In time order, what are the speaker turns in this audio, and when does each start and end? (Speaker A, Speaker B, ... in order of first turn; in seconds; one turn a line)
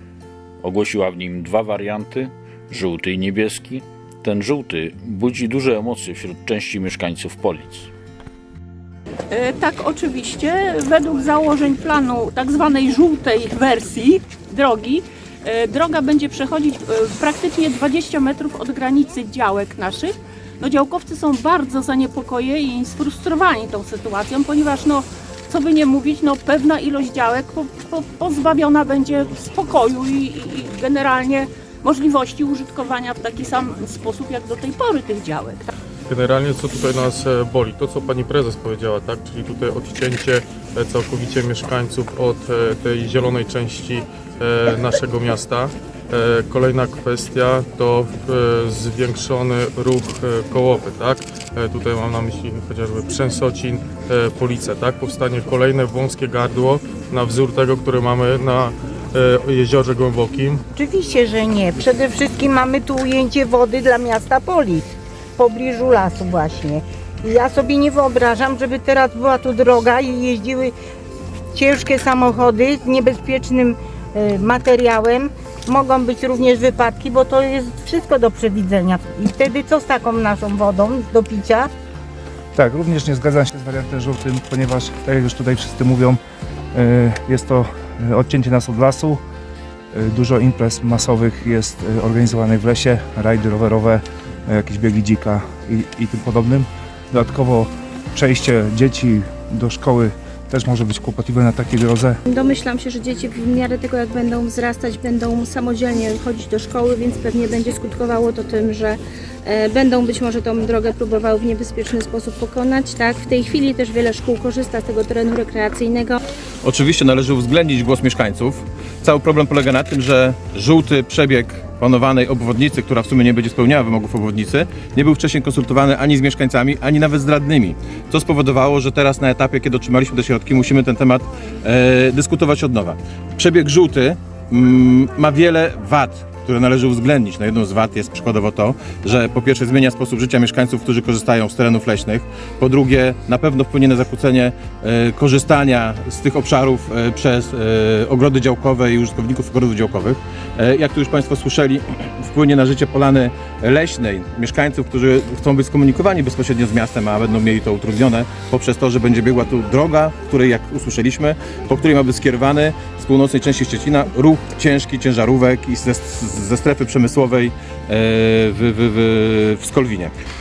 Speaker A: 0.6-7.9
Speaker B: 9.3-20.1
Speaker B: 20.6-35.7
Speaker C: 36.1-60.6
Speaker D: 60.8-70.8
Speaker D: 71.5-81.7
Speaker E: 82.5-86.2
Speaker E: 86.7-89.2
Speaker E: 89.9-102.2
Speaker F: 102.3-116.2
Speaker G: 116.6-170.1